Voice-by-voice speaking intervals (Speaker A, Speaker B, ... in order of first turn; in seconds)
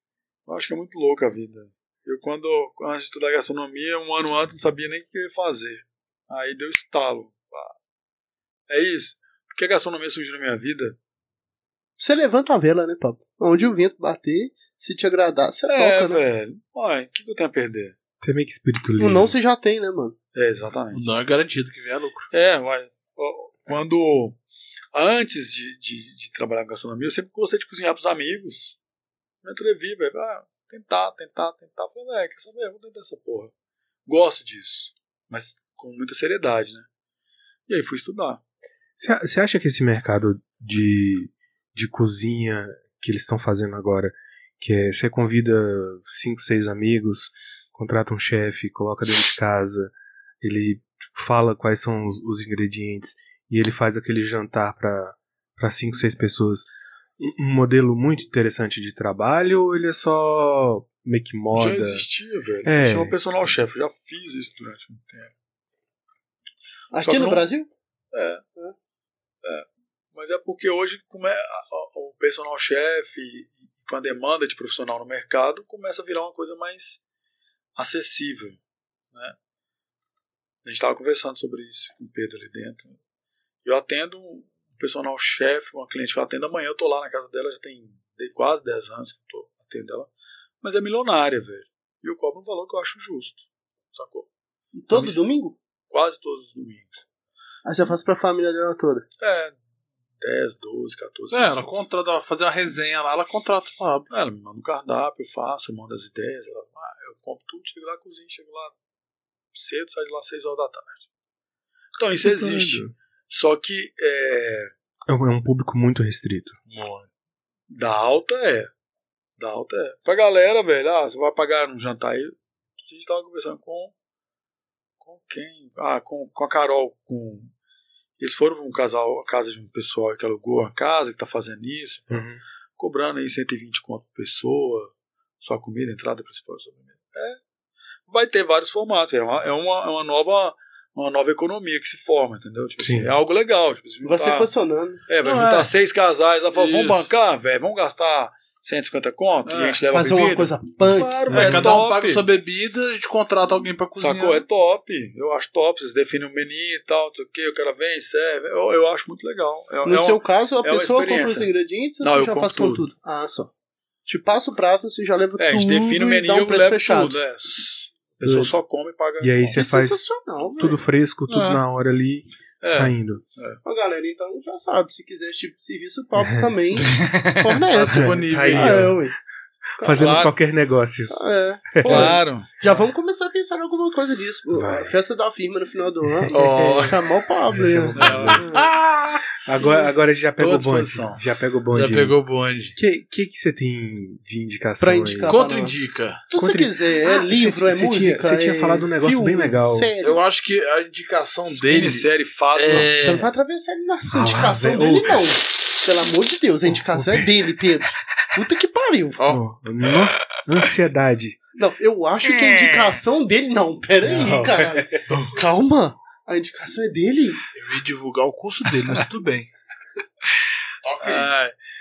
Speaker A: 0.5-7.7, 8.7-11.0, 15.6-17.9, 20.3-21.1, 22.3-24.4, 24.9-28.8, 29.4-33.5, 34.0-36.9, 37.7-38.4, 61.5-65.3, 67.0-67.5, 68.1-68.4, 69.4-77.0, 77.8-78.6, 80.6-83.0, 83.6-90.1, 90.6-93.4, 93.9-94.3, 94.9-95.2, 95.9-97.0, 99.2-99.5, 100.2-101.8, 104.1-108.7, 109.5-111.0, 112.0-114.7, 117.7-118.7, 119.4-123.9, 125.0-127.5, 128.2-137.4, 138.1-144.5, 145.1-152.2, 154.0-162.8, 165.4-169.6, 172.6-173.6, 179.9-180.3, 181.8-182.5, 188.0-188.4, 190.1-191.2, 201.5-202.9, 212.3-213.0, 221.0-221.5
Speaker B: 12.0-16.2, 19.0-20.1, 66.9-67.7, 94.8-95.6, 97.6-99.0, 144.0-145.0, 149.9-151.2, 159.8-163.5, 164.1-167.2, 169.5-170.8, 173.6-179.2, 179.8-180.3, 181.1-188.7, 194.8-200.2, 202.7-209.2, 211.5-217.4
Speaker C: 18.2-19.3, 39.0-56.7, 57.2-62.0, 62.6-63.1, 112.2-112.9, 115.1-116.6, 132.1-132.4, 142.8-143.1, 151.3-151.7, 169.2-170.0, 170.6-173.2, 176.2-176.5, 177.9-179.1, 179.8-181.2, 181.7-182.2, 184.5-184.9, 186.2-186.9, 187.5-188.6, 189.4-192.2, 192.8-195.4, 196.3-199.9, 204.1-205.2, 206.7-207.2, 209.3-211.4, 214.0-215.0
Speaker D: 20.9-22.3, 101.3-104.1, 116.7-117.1, 145.2-145.7, 146.5-147.1, 149.4-149.8, 151.3-154.4, 171.3-171.6, 176.8-178.9, 186.3-187.0, 188.0-189.3, 191.7-192.8, 195.2-196.2, 200.0-203.3, 209.2-209.4, 217.5-219.5, 220.8-221.3